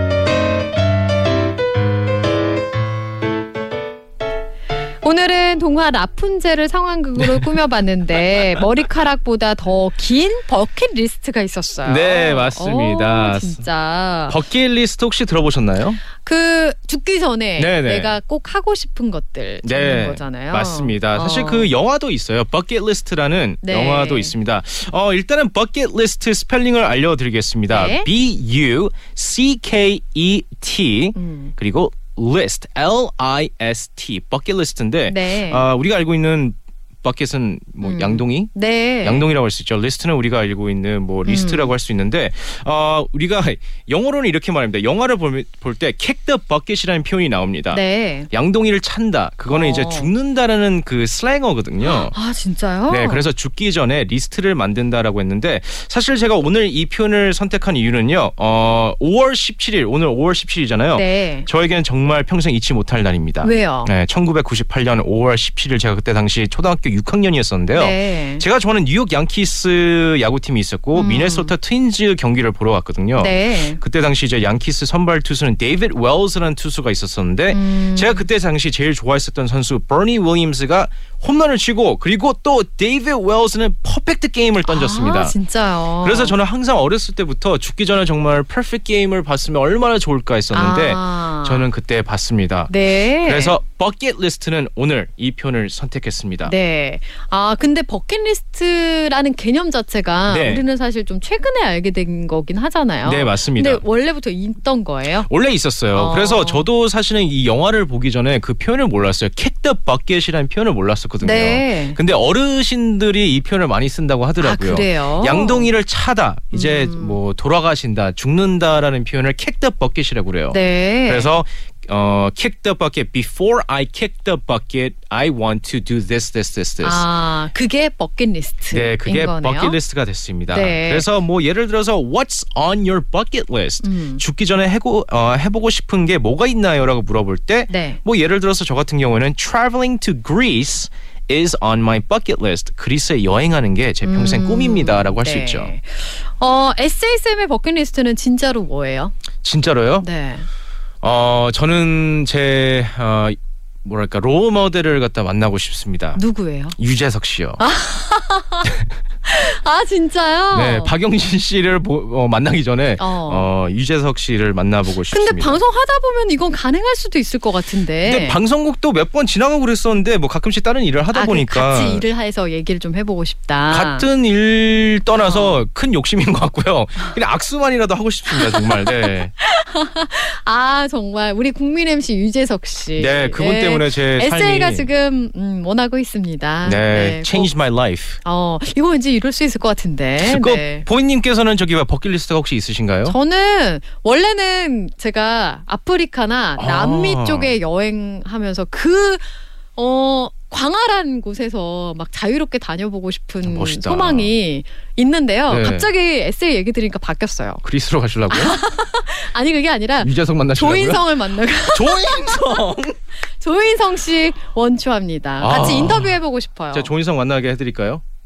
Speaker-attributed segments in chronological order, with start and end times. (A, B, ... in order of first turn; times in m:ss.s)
0:05.0-0:14.4 A
0:07.2-0:07.5 B
0:11.9-0:13.6 B
0:14.3-0:16.0 B
0:16.2-0:21.7 A
0:17.6-0:18.2 B
0:19.6-0:38.5 B
0:23.6-0:24.3 A
0:27.7-0:28.1 A
0:31.2-0:31.6 A
0:35.1-0:35.7 A
0:37.8-0:39.3 A
0:39.0-0:52.1 B
0:41.2-0:41.7 A
0:47.7-0:48.3 A
0:49.5-0:50.1 A
0:51.8-0:53.2 A
0:52.9-1:25.4 B
1:01.0-1:01.5 A
1:03.4-1:03.9 A
1:07.7-1:08.4 A
1:11.0-1:11.5 A
1:13.2-1:13.8 A
1:17.5-1:18.3 A
1:24.7-1:26.4 A
1:26.0-1:36.6 B
1:30.5-1:31.7 A
1:32.7-1:33.6 A
1:36.4-1:45.3 A
1:40.3-1:40.6 B
1:43.0-1:43.8 B
1:45.2-2:07.1 B
1:45.9-1:46.6 A
1:51.2-1:52.0 A
1:54.4-1:55.7 A
1:56.5-1:57.2 A
2:00.5-2:01.3 A
2:06.8-2:09.8 A
2:08.7-2:25.7 B
2:10.5-2:11.1 A
2:13.8-2:14.2 A
2:17.7-2:18.0 A
2:24.0-2:29.2 A
2:29.4-2:30.1 B
2:30.0-2:30.5 A
2:31.0-2:36.2 B
2:36.2-2:36.8 A
2:36.8-2:37.6 B
2:37.6-2:38.7 A
2:39.2-2:40.9 A
2:40.5-2:45.6 B
2:43.0-2:43.5 A
2:45.1-2:48.4 A
2:48.0-2:52.0 B
2:51.1-2:54.1 A
2:53.7-2:59.3 B
2:55.2-2:55.6 A
2:58.3-3:07.5 A
3:03.0-3:04.9 B
3:06.6-3:08.2 B
3:08.2-3:10.9 A
3:10.2-3:13.2 B
3:13.1-3:19.2 A
3:16.6-3:17.6 B
3:19.8-3:27.6 A
3:23.4-3:24.3 B
3:25.5-3:25.9 B
3:27.6-3:28.6 B
3:28.3-3:32.7 A
3:30.0-3:33.0 B
3:33.4-3:36.9 A
3:35.4-3:36.2 B
3:36.7-3:38.0 B